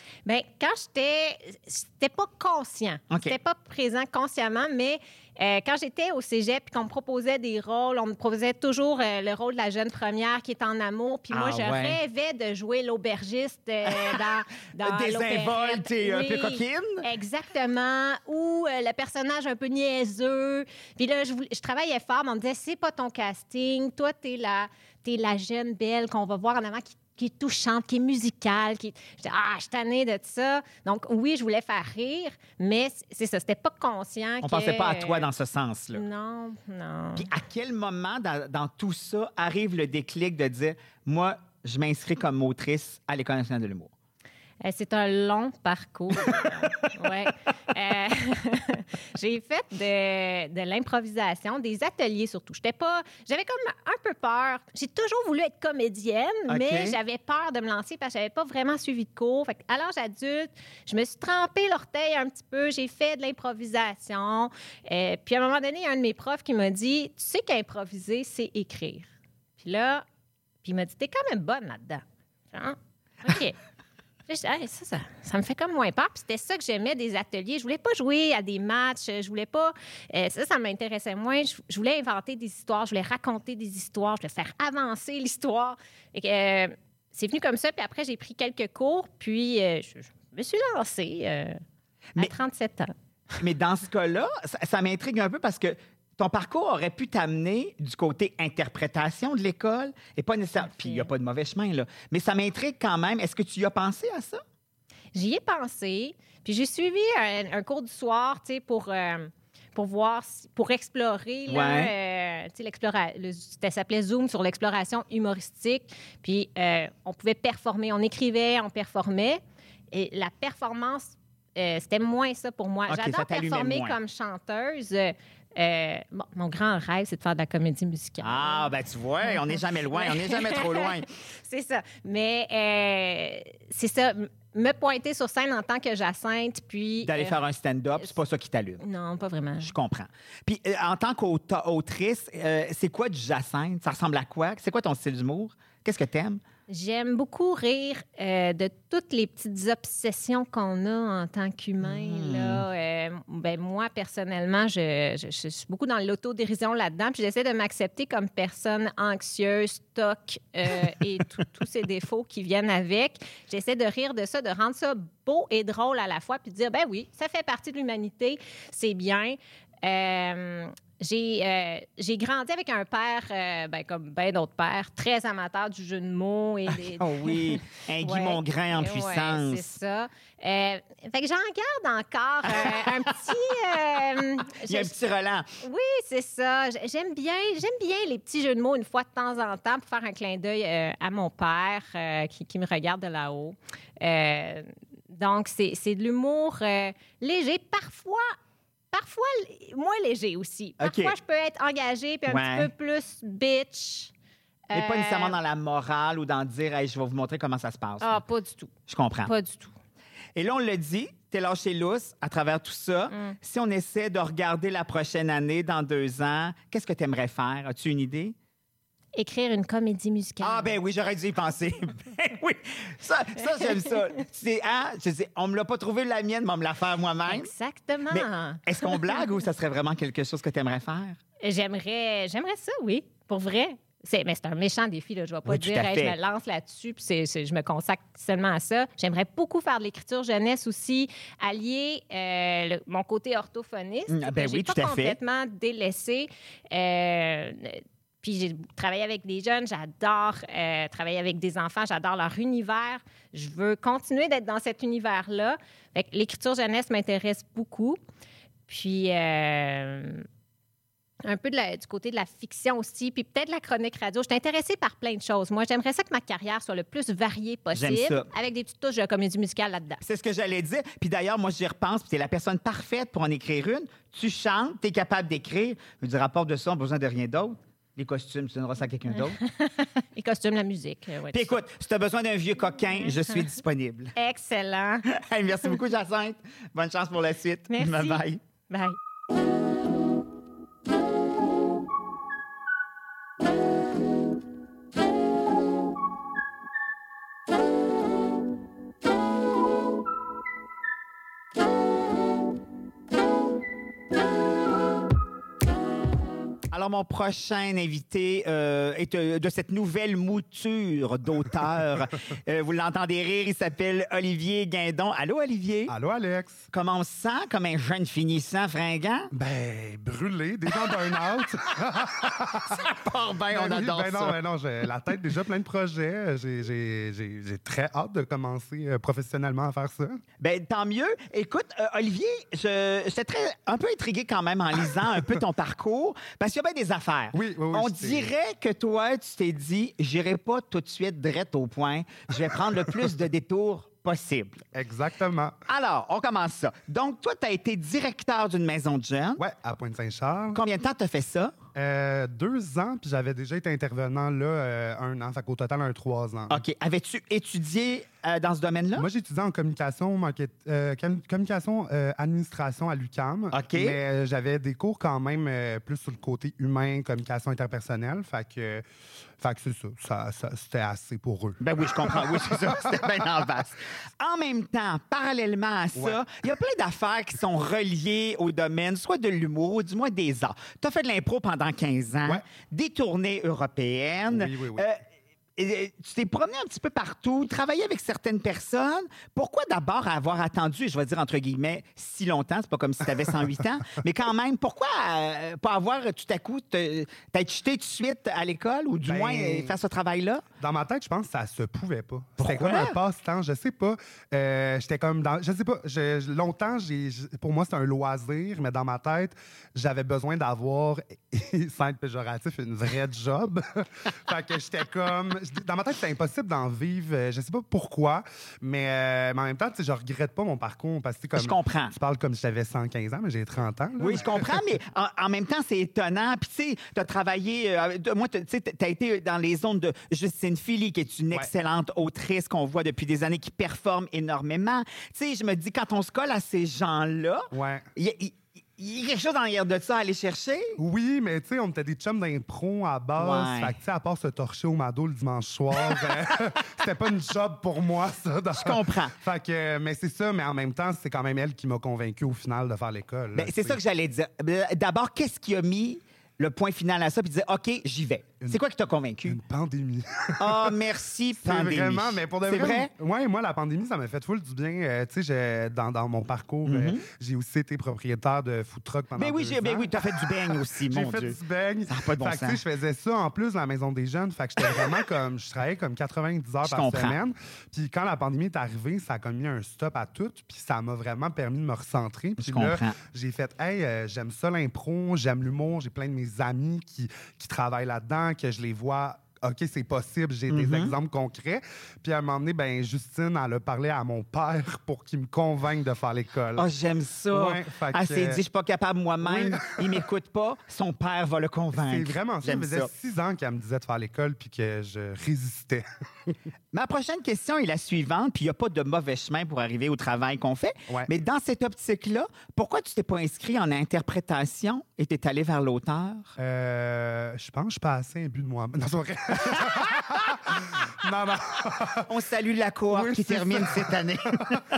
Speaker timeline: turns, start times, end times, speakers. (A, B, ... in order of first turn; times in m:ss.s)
0:00.2-0:35.2 A
0:03.1-0:03.4 B
0:11.3-0:12.0 B
0:13.9-0:14.2 B
0:14.8-0:17.0 B
0:34.4-0:36.0 B
0:35.9-0:37.3 A
0:37.2-0:43.9 B
0:44.6-1:10.0 A
0:56.5-0:57.0 B
1:10.6-1:13.6 A
1:14.3-1:31.6 A
1:32.2-1:32.9 A
1:33.4-1:44.4 B
1:40.6-1:41.1 A
1:45.1-1:59.4 A
1:51.5-1:51.9 B
1:59.9-2:17.4 A
2:02.9-2:04.0 B
2:08.2-2:11.0 B
2:17.0-2:18.8 B
2:18.8-2:19.7 A
2:19.6-2:26.4 B
2:26.7-3:04.9 A
2:31.8-2:32.6 B
2:56.7-2:59.7 B
3:02.4-3:03.1 B
3:04.6-3:05.5 B
3:05.6-3:18.3 A
3:18.9-3:24.1 A
3:20.8-3:21.1 B
3:22.3-3:22.7 B
3:24.7-3:25.4 A
3:24.7-3:28.2 B
3:28.0-3:28.7 A
3:28.9-3:29.3 B
3:29.2-3:29.7 A
3:30.3-3:38.3 B
3:33.1-3:33.4 A
3:39.2-3:40.7 A
3:40.4-3:47.5 B
3:47.3-3:49.2 A
3:48.1-3:51.2 B
3:51.4-4:18.0 A
3:55.4-3:56.2 B
4:04.1-4:05.2 B
4:18.7-4:20.2 A
4:21.2-4:30.0 A
4:27.7-4:28.3 B
4:30.0-4:39.4 B
4:39.1-4:41.6 A
4:41.3-4:44.1 B
4:43.0-4:43.4 A
4:44.2-4:45.0 A
4:45.1-4:48.4 B
4:47.7-4:49.0 A
5:06.7-5:15.9 B
5:15.9-5:16.7 C
5:16.7-5:19.3 B
5:19.3-5:22.8 C
5:22.7-5:24.4 B
5:23.5-5:30.2 C
5:30.4-5:44.6 B
5:37.3-5:38.3 C
5:44.7-5:45.6 C
5:45.7-5:49.4 B
5:49.4-5:50.6 C
5:50.5-5:51.5 B
5:51.7-5:56.6 C
5:56.5-5:59.1 B
5:58.9-6:08.8 C
6:03.5-6:04.0 B
6:09.4-6:13.2 C
6:11.6-6:25.0 B
6:24.3-6:24.9 C
6:25.6-6:40.4 B
6:39.0-6:39.8 C
6:40.6-6:53.6 C
6:42.4-6:43.0 B
6:54.3-7:04.6 C
7:01.3-7:01.9 B
7:04.0-7:20.8 B
7:17.5-7:17.9 C
7:20.8-7:33.8 C
7:23.2-7:23.8 B
7:28.5-7:29.1 B
7:33.3-7:39.4 B
7:39.2-7:40.7 C
7:40.4-7:42.9 B
7:41.3-8:16.7 C
7:46.6-7:47.0 B
7:49.2-7:52.6 B
7:56.6-7:57.2 B
8:02.4-8:03.0 B
8:10.5-8:10.9 B
8:16.6-8:22.9 B
8:17.3-8:18.4 C
8:19.2-8:20.0 C
8:21.7-8:25.8 C
8:26.7-8:36.3 B
8:36.4-8:42.1 C
8:42.1-8:44.6 B
8:42.9-8:44.6 C